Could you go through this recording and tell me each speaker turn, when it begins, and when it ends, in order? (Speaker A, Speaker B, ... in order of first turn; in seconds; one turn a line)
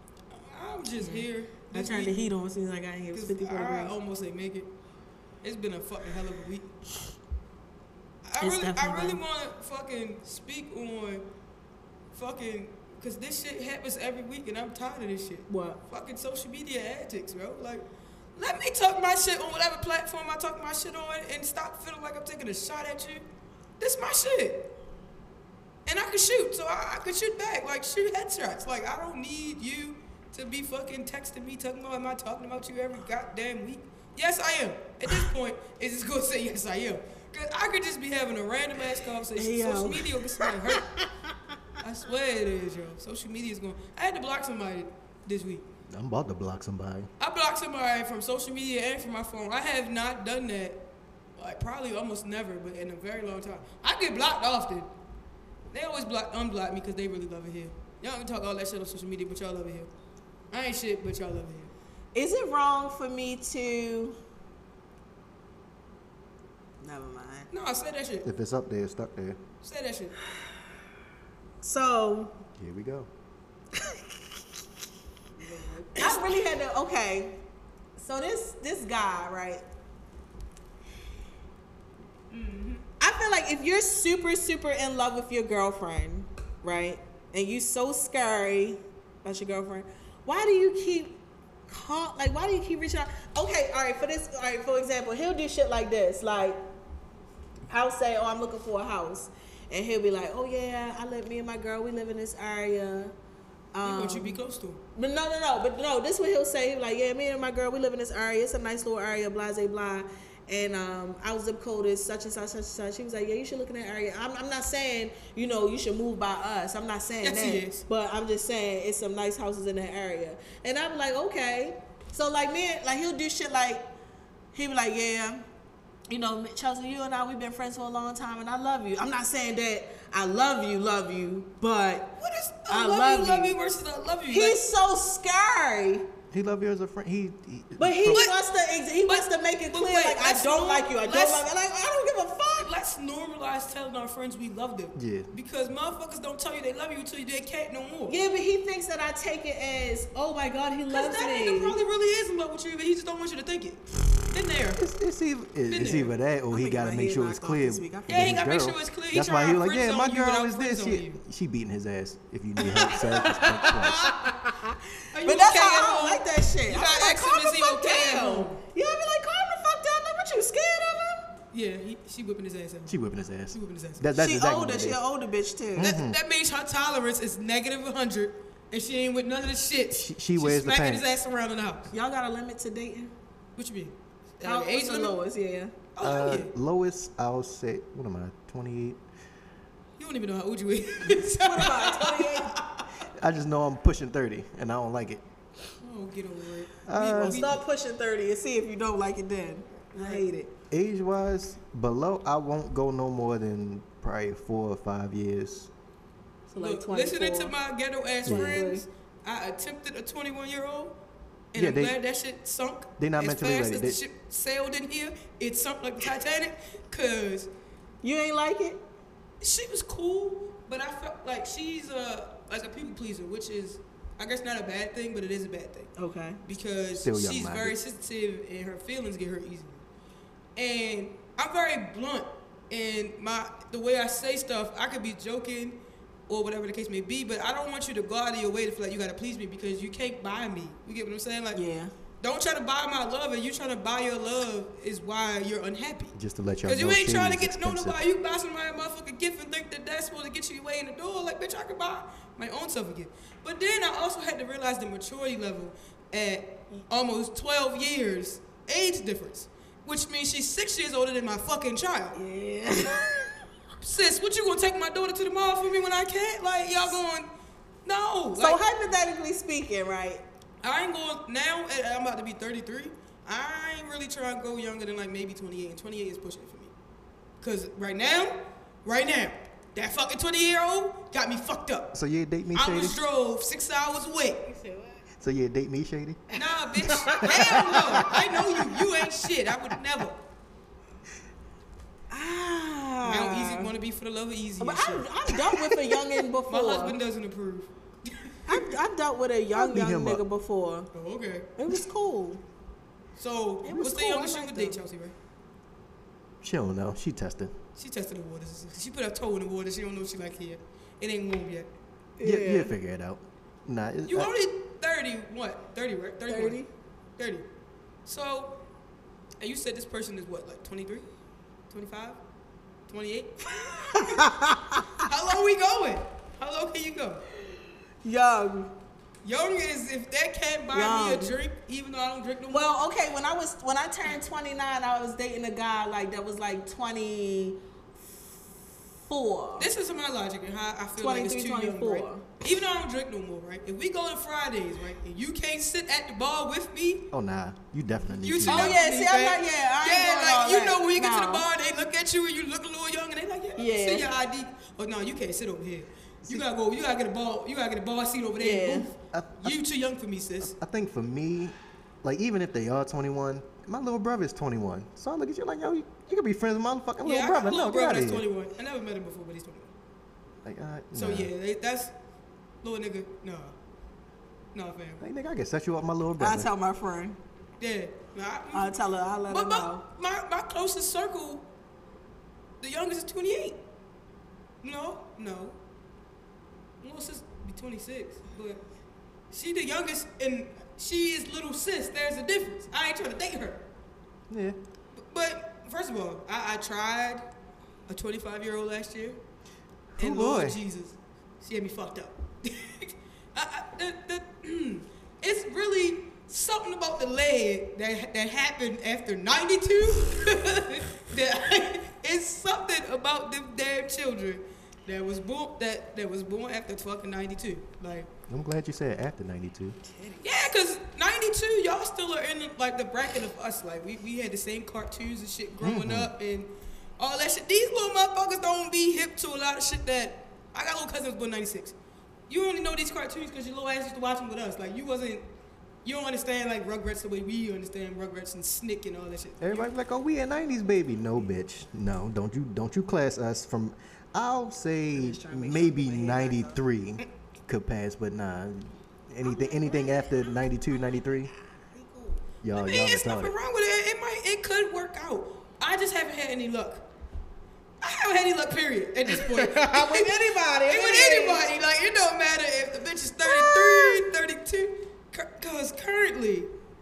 Speaker A: 0.3-2.2
Speaker B: 1.0-3.9
Speaker A: 3.1-4.7
Speaker A: 5.4-6.7
Speaker A: 8.3-11.2
Speaker B: 8.4-9.2
Speaker A: 12.1-17.9
Speaker B: 15.5-15.8
Speaker A: 18.4-23.2
Speaker A: 23.8-24.7
Speaker A: 25.9-40.9
Speaker B: 39.4-41.5
Speaker A: 41.8-45.6
Speaker C: 45.9-47.1
Speaker A: 47.2-50.9
Speaker A: 51.4-54.9
Speaker A: 55.7-59.9
Speaker A: 60.5-61.7
Speaker B: 62.1-64.2
Speaker B: 66.8-67.5
Speaker A: 67.5-68.3
Speaker C: 68.2-69.4
Speaker A: 69.6-70.2
Speaker B: 71.6-72.4
Speaker C: 72.6-73.1
Speaker A: 75.4-76.4
Speaker B: 76.0-77.4
Speaker B: 78.0-79.7
Speaker A: 82.3-82.8
Speaker B: 83.0-96.6
Speaker B: 97.7-103.2
Speaker B: 103.7-104.4
Speaker A: 103.8-104.8
Speaker B: 105.0-123.9
Speaker A: 117.2-117.8
Speaker B: 124.5-125.5
Speaker B: 126.1-133.5
Speaker A: 132.2-134.6
Speaker B: 134.3-136.1
Speaker C: 136.3-138.3
Speaker B: 137.8-142.7
Speaker A: 139.1-141.5
Speaker A: 142.6-148.2
Speaker C: 144.9-145.3
Speaker B: 148.1-151.8
Speaker A: 150.9-154.8
Speaker C: 154.8-164.0
Speaker A: 155.7-156.1
Speaker B: 156.5-158.4
Speaker A: 158.1-161.2
Speaker A: 162.7-164.3
Speaker B: 163.6-171.3
Speaker A: 165.1-168.6
Speaker A: 171.5-174.1
Speaker C: 172.9-175.0
Speaker B: 174.2-175.9
Speaker C: 175.8-176.2
Speaker A: 175.8-181.9
Speaker C: 179.9-181.1
Speaker B: 181.9-183.1
Speaker A: 183.6-185.2
Speaker B: 184.4-185.7
Speaker A: 185.9-186.5
Speaker C: 186.0-189.0
Speaker A: 190.0-192.9
Speaker B: 191.3-192.6
Speaker C: 193.1-195.2
Speaker A: 195.8-197.6
Speaker C: 196.9-197.6
Speaker B: 197.1-200.5
Speaker A: 199.9-200.2
Speaker C: 200.7-205.7
Speaker B: 206.5-207.5
Speaker A: 206.6-211.0
Speaker C: 208.2-208.6
Speaker B: 208.3-208.8
Speaker A: 211.5-217.5
Speaker C: 211.6-212.0
Speaker C: 213.0-214.0
Speaker B: 218.0-218.8
Speaker A: 219.4-225.9
Speaker B: 226.0-226.4
Speaker A: 226.4-229.8
Speaker C: 227.0-227.8
Speaker A: 230.6-241.6
Speaker B: 241.5-241.9
Speaker A: 242.2-262.2
Speaker C: 246.1-248.0
Speaker B: 262.1-263.4
Speaker A: 263.8-267.3
Speaker A: 267.9-268.6
Speaker B: 268.4-270.2
Speaker A: 270.6-276.7
Speaker A: 277.4-281.9
Speaker C: 281.9-283.0
Speaker A: 282.5-284.4
Speaker B: 284.4-285.1
Speaker C: 285.2-286.2
Speaker A: 286.3-290.2
Speaker C: 286.8-288.2
Speaker B: 286.8-288.2
Speaker B: 292.1-293.7
Speaker A: 293.0-295.1
Speaker B: 294.6-297.0
Speaker A: 296.5-298.7
Speaker B: 298.5-300.9
Speaker C: 299.6-300.2
Speaker A: 300.9-301.5
Speaker B: 301.6-302.4
Speaker A: 303.2-305.1
Speaker B: 303.6-304.8
Speaker C: 306.4-307.6
Speaker A: 307.8-311.7
Speaker B: 312.2-312.7
Speaker C: 312.2-314.3
Speaker A: 314.1-316.6
Speaker B: 316.3-316.7
Speaker A: 317.2-317.4
Speaker A: 318.1-318.6
Speaker A: 319.4-321.1
Speaker A: 321.7-322.2
Speaker A: 322.9-324.3
Speaker B: 323.5-325.0
Speaker A: 324.9-327.2
Speaker B: 328.0-328.7
Speaker A: 329.2-332.8
Speaker B: 330.7-331.4
Speaker B: 332.5-338.3
Speaker B: 339.0-339.7
Speaker A: 339.6-347.1
Speaker B: 341.0-342.3
Speaker C: 347.1-348.8
Speaker A: 348.1-360.5
Speaker B: 348.5-351.5
Speaker B: 353.6-354.1
Speaker B: 358.4-358.9
Speaker C: 359.1-359.6
Speaker C: 360.4-368.3
Speaker A: 367.0-369.7
Speaker C: 370.4-371.3
Speaker A: 370.9-371.9
Speaker A: 372.6-373.6
Speaker A: 374.5-375.0
Speaker C: 375.0-376.5
Speaker B: 376.2-377.2
Speaker A: 377.6-378.8
Speaker B: 378.5-379.8
Speaker A: 379.3-381.5
Speaker A: 382.6-383.6
Speaker A: 384.6-385.6
Speaker A: 386.8-388.6
Speaker A: 389.3-393.7
Speaker C: 394.3-394.6
Speaker A: 395.0-397.3
Speaker A: 397.9-399.2
Speaker C: 400.0-400.6
Speaker A: 400.0-418.1
Speaker C: 418.3-419.8
Speaker B: 419.8-420.5
Speaker A: 420.2-431.8
Speaker C: 425.6-426.1
Speaker A: 432.3-435.3
Speaker A: 435.8-439.7
Speaker C: 439.4-451.3
Speaker B: 444.9-446.6
Speaker B: 449.2-450.3
Speaker B: 451.6-452.2
Speaker C: 452.4-453.4
Speaker A: 452.6-456.9
Speaker A: 457.8-466.5
Speaker B: 459.1-461.5
Speaker B: 463.2-464.0